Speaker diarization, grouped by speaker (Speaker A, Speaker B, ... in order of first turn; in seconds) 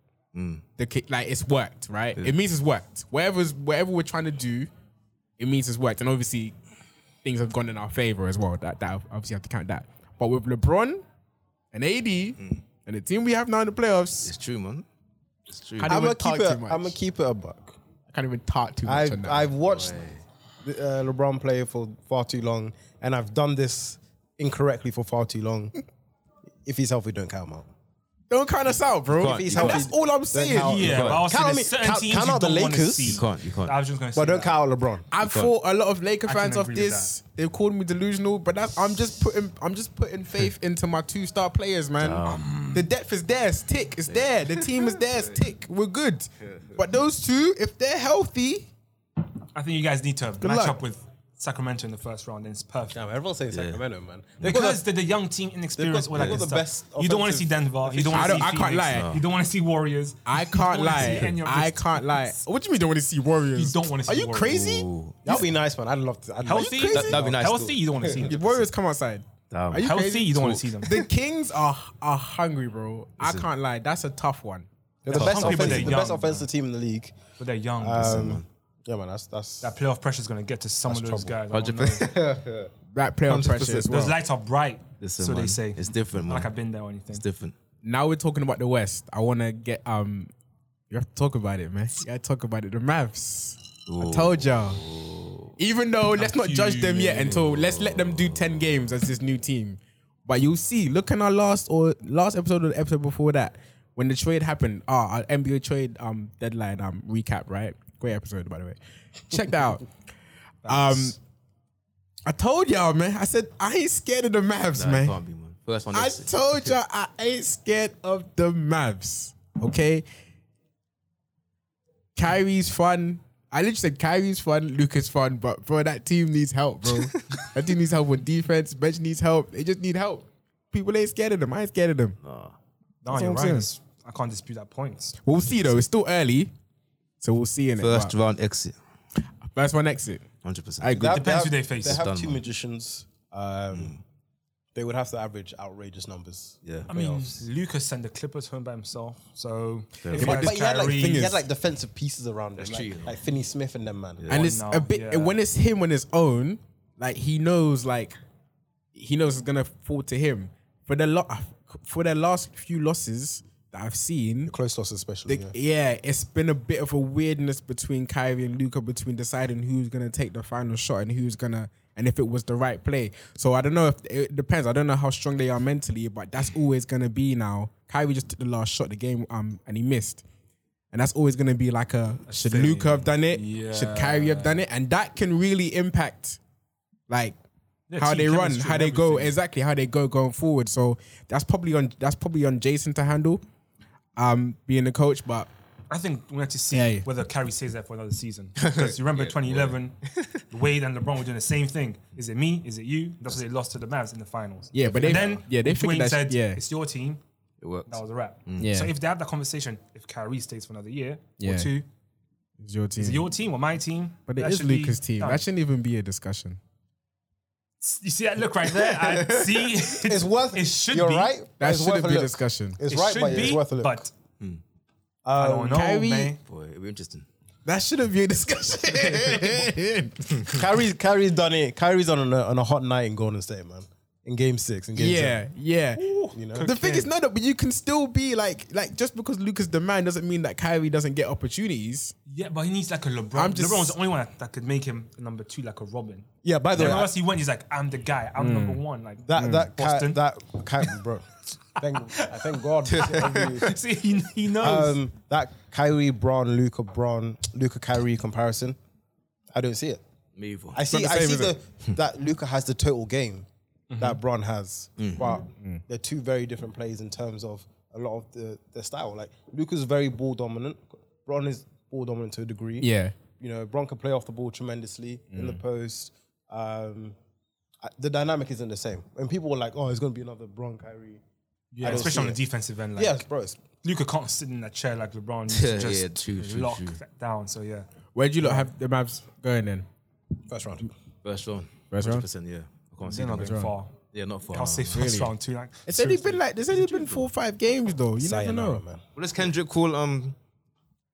Speaker A: 0.3-0.7, 14.2-14.8, 15.5-16.0, 19.6-20.2, 29.1-29.9, 30.8-31.2, 33.0-33.7, 35.2-35.5, 42.0-42.6, 44.1-45.4, 46.4-46.8, 53.5-53.8, 56.1-56.4, 58.9-59.2, 60.9-61.3, 64.4-65.4, 66.9-67.8, 69.5-71.0, 73.2-73.5, 75.1-76.0, 78.0-78.5, 81.5-82.7, 83.3-83.9, 85.0-86.5, 87.1-87.5, 93.9-95.5, 97.2-98.8, 114.8-116.7, 132.2-132.6, 137.8-138.8, 140.4-141.0, 141.8-142.5, 143.7-144.0, 146.6-146.9, 150.0-150.5, 152.6-153.2, 198.6-200.4, 204.8-205.4, 207.6-208.7, 226.4-227.3, 252.9-253.7, 260.4-260.8, 265.0-265.4, 285.5-287.0, 291.2-295.0, 299.2-300.4
Speaker B: 0.8-4.7, 5.4-6.5, 7.2-11.0, 11.7-14.3, 15.8-17.0, 18.1-19.5, 28.3-30.8, 35.1-48.7, 50.4-50.8, 58.1-59.2, 60.3-65.5, 66.5-67.2, 68.2-74.7, 82.9-84.2, 87.8-90.3, 90.9-94.8, 95.6-109.9, 110.7-111.2, 112.3-115.2, 115.9-120.0, 122.2-132.2, 133.1-133.7, 135.2-136.5, 137.2-138.1, 139.4-140.3, 140.8-141.3, 150.2-151.4, 154.3-158.2, 158.9-164.5, 165.3-180.2, 180.9-186.4, 187.1-187.4, 188.0-193.4, 194.2-195.5, 196.7-197.1, 204.7-206.6, 208.6-208.9, 211.4-211.7, 212.6-213.3, 214.3-216.6, 221.6-222.8, 225.7-226.3, 227.7-230.6, 234.9-236.0, 236.6-242.1, 243.3-244.0, 248.4-248.8, 249.3-249.7, 260.9-261.6, 272.8-273.2, 275.3-275.6, 288.1-289.9, 291.9-292.3, 293.4-293.7, 294.9-295.3, 295.9-298.8
Speaker C: 15.8-17.8, 18.9-20.0, 20.6-25.8, 26.6-27.7, 29.2-33.2, 34.1-35.1, 52.9-54.8, 55.8-58.4, 65.2-67.4, 75.0-77.2, 77.8-79.8, 80.9-81.4, 82.0-82.4, 140.9-144.0, 144.8-147.4, 150.1-154.3, 164.5-165.6, 219.9-224.1, 225.2-225.8, 230.4-235.4, 236.3-236.7, 246.4-247.1, 249.2-253.8, 254.6-258.8, 259.5-260.0, 260.7-263.5, 264.0-277.2, 277.8-281.2, 281.8-282.4, 283.0-283.6, 288.4-288.7, 290.5-290.9, 298.2-299.0
Speaker D: 30.5-34.6, 36.3-37.1, 42.3-42.9, 49.5-53.0, 54.4-62.4, 63.5-64.6, 66.4-68.7, 69.8-71.0, 75.1-76.5, 77.4-78.4, 79.6-82.1, 83.9-87.2, 96.2-97.4, 110.7-111.2, 133.0-135.5, 141.0-142.0, 146.9-151.3, 154.3-155.4, 182.3-184.6, 187.9-189.4, 195.9-207.2, 207.9-211.9, 213.0-215.4, 217.8-221.3, 222.9-224.1, 225.3-226.4, 236.0-237.1, 242.3-250.2, 251.8-255.0, 263.9-264.2, 281.7-283.3, 283.8-287.9, 293.0-293.9, 294.5-296.5